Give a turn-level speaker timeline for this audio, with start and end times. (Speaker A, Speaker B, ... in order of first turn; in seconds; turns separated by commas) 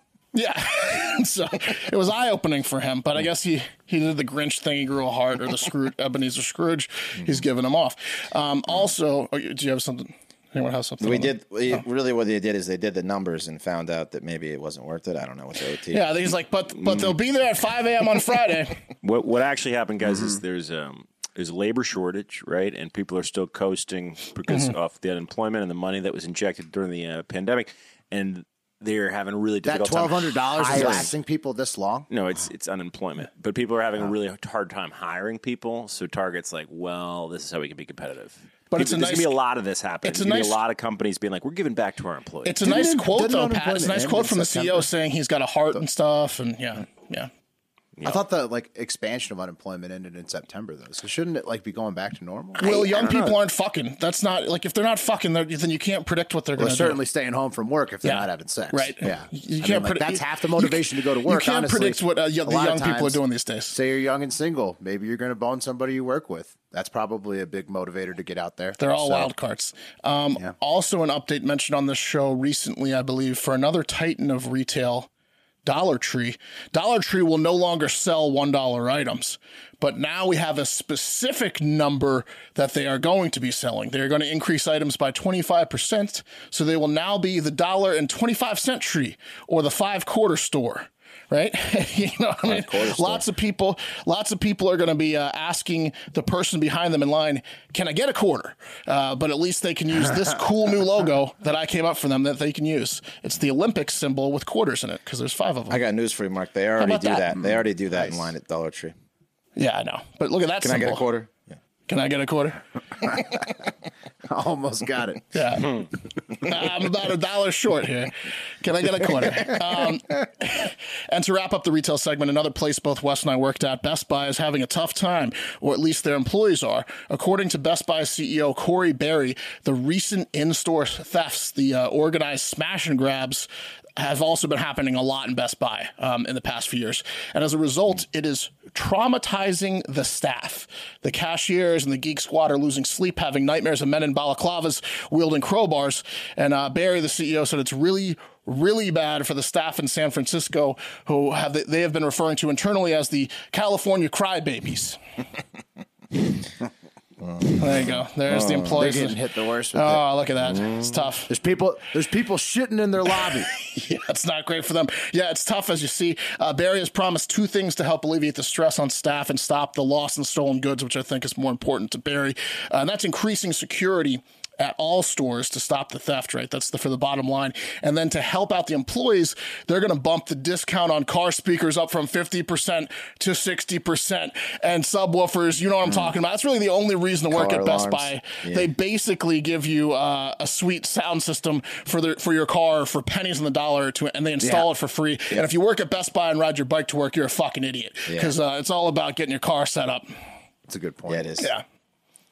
Speaker A: 0.3-11.8, Speaker B: 11.0-16.1, Speaker A: 15.9-18.8, Speaker C: 19.0-31.1, Speaker D: 29.6-32.1, Speaker C: 32.1-42.6, Speaker A: 38.7-39.3, Speaker A: 40.0-40.6, Speaker A: 42.4-47.3, Speaker D: 42.6-44.9, Speaker C: 48.0-48.2, Speaker D: 48.0-52.6, Speaker A: 52.6-57.0, Speaker C: 52.6-53.4, Speaker D: 56.6-63.2, Speaker A: 58.0-63.7, Speaker D: 63.7-69.3, Speaker A: 68.8-75.1, Speaker A: 75.6-105.8, Speaker B: 92.4-93.2, Speaker B: 105.7-108.9, Speaker A: 106.8-107.3, Speaker A: 109.5-111.1, Speaker B: 110.6-111.6, Speaker A: 111.9-112.6, Speaker D: 114.3-115.2, Speaker A: 115.3-115.8, Speaker A: 116.4-155.0, Speaker B: 157.2-158.8, Speaker A: 157.6-159.2, Speaker D: 158.8-160.0, Speaker A: 159.7-161.3, Speaker D: 161.3-163.5, Speaker A: 163.6-200.1, Speaker B: 187.3-188.7, Speaker D: 194.4-194.7, Speaker B: 198.1-198.3, Speaker D: 200.7-201.4, Speaker B: 201.1-201.5